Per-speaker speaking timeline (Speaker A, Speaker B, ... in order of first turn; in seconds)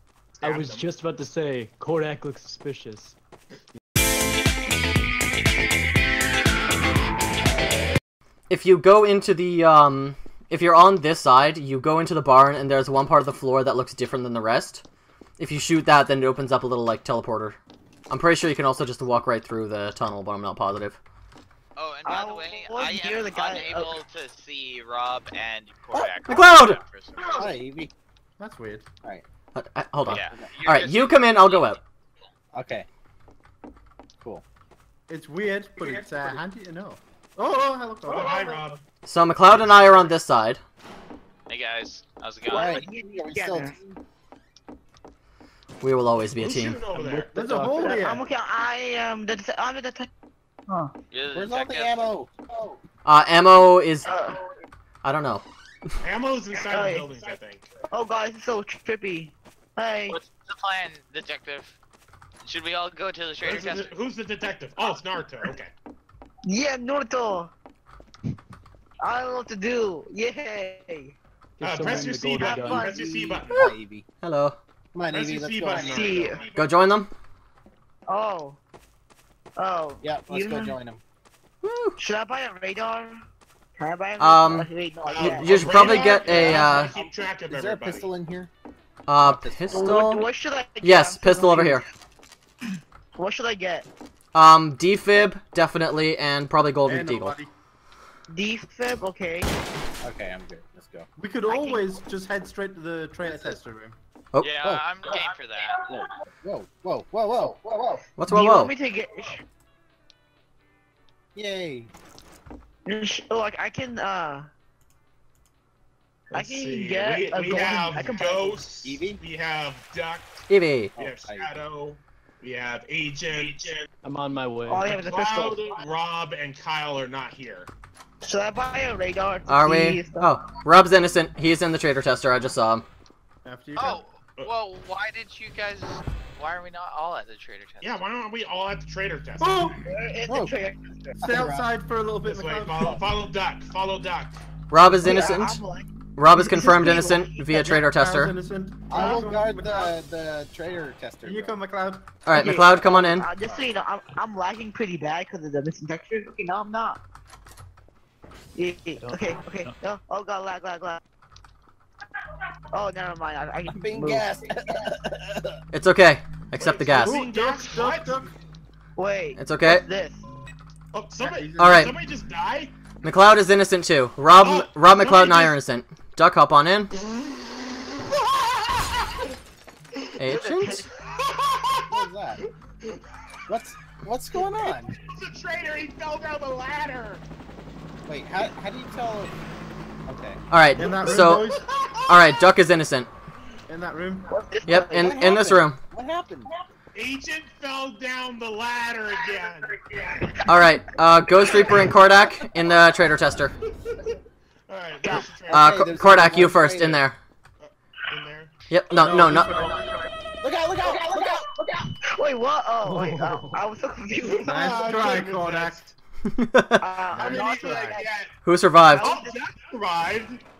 Speaker A: 0.3-0.8, 38.0-38.8, 39.6-40.1, 46.4-47.4, 56.0-57.7, 63.4-65.7, 71.6-73.6, 75.1-76.7, 85.0-88.1, 116.3-120.4, 121.0-123.9, 125.0-127.7, 137.8-139.6, 142.2-144.4, 166.6-168.1, 170.9-172.7, 174.4-175.6, 177.0-179.3, 181.0-183.0, 184.8-187.2, 190.8-192.2, 196.9-200.4, 204.7-205.8, 207.6-208.5, 214.2-215.8, 217.2-218.3, 219.0-220.4
Speaker B: 0.4-3.2, 46.9-48.0, 71.6-73.0, 124.0-125.1, 159.0-159.8, 212.8-213.7
Speaker C: 8.5-14.8, 15.4-17.6, 18.1-21.0, 26.2-26.8, 29.5-31.8, 39.0-40.6, 45.8-46.8, 53.0-54.1, 55.0-56.0, 73.5-74.6, 76.5-77.1, 81.6-82.0, 84.2-86.9, 89.1-90.3, 90.8-91.8, 94.3-97.3, 108.2-108.7, 120.5-120.9, 129.5-132.8, 144.7-145.6, 146.2-148.3, 152.2-153.3, 165.7-167.2, 169.4-169.8, 171.6-171.9, 173.0-176.9, 180.2-180.8, 190.5-191.4, 192.1-193.1, 194.7-195.8, 200.4-203.5, 205.5-207.2, 208.7-209.6, 216.3-216.9, 218.4-219.1
Speaker D: 21.8-27.5, 30.1-31.7, 41.5-42.9, 51.1-52.0, 60.1-61.8, 62.4-63.9, 104.4-105.8, 133.8-138.0
Speaker E: 22.0-24.0, 42.5-43.8, 47.8-50.1, 54.0-54.4, 56.6-57.3, 57.9-60.2, 66.4-67.5, 69.0-71.2, 71.9-73.5, 75.7-76.4, 78.1-78.6, 79.6-80.8, 82.0-83.2, 83.8-86.2, 89.7-91.8, 93.2-93.9, 98.3-99.5, 101.5-102.0, 108.3-109.4, 112.8-114.5, 116.3-118.7, 124.7-125.7, 128.2-130.3, 139.8-141.2, 145.0-147.5, 152.3-157.0, 158.5-161.0, 162.7-164.3, 168.9-170.2, 180.2-181.0, 194.3-195.1, 199.3-200.5, 201.5-201.8, 209.6-210.1, 210.8-214.7, 216.8-218.1, 218.9-219.3
Speaker F: 25.9-26.2, 27.3-27.9, 30.1-30.5, 32.5-32.9, 42.5-44.0, 51.3-52.8, 73.5-74.0, 74.9-76.0, 80.0-81.0, 85.8-86.9, 87.5-88.5, 89.2-90.1, 100.0-101.1, 105.9-108.0, 111.3-111.9, 118.8-119.2, 121.0-121.6, 140.3-140.6, 141.2-141.7, 148.9-151.5, 163.7-165.6, 181.9-182.4, 183.5-185.0, 188.1-189.3, 190.1-190.4, 194.9-196.5, 205.5-207.0, 210.4-211.5
Speaker G: 28.4-28.9, 35.1-38.4, 47.3-48.3, 96.8-97.5, 101.2-104.0, 133.4-134.0, 139.4-139.9, 141.2-143.1, 147.5-149.9, 151.2-152.1, 167.0-168.3, 171.2-171.9, 190.7-191.6, 193.7-194.3, 208.9-209.9, 214.4-215.9, 217.1-218.0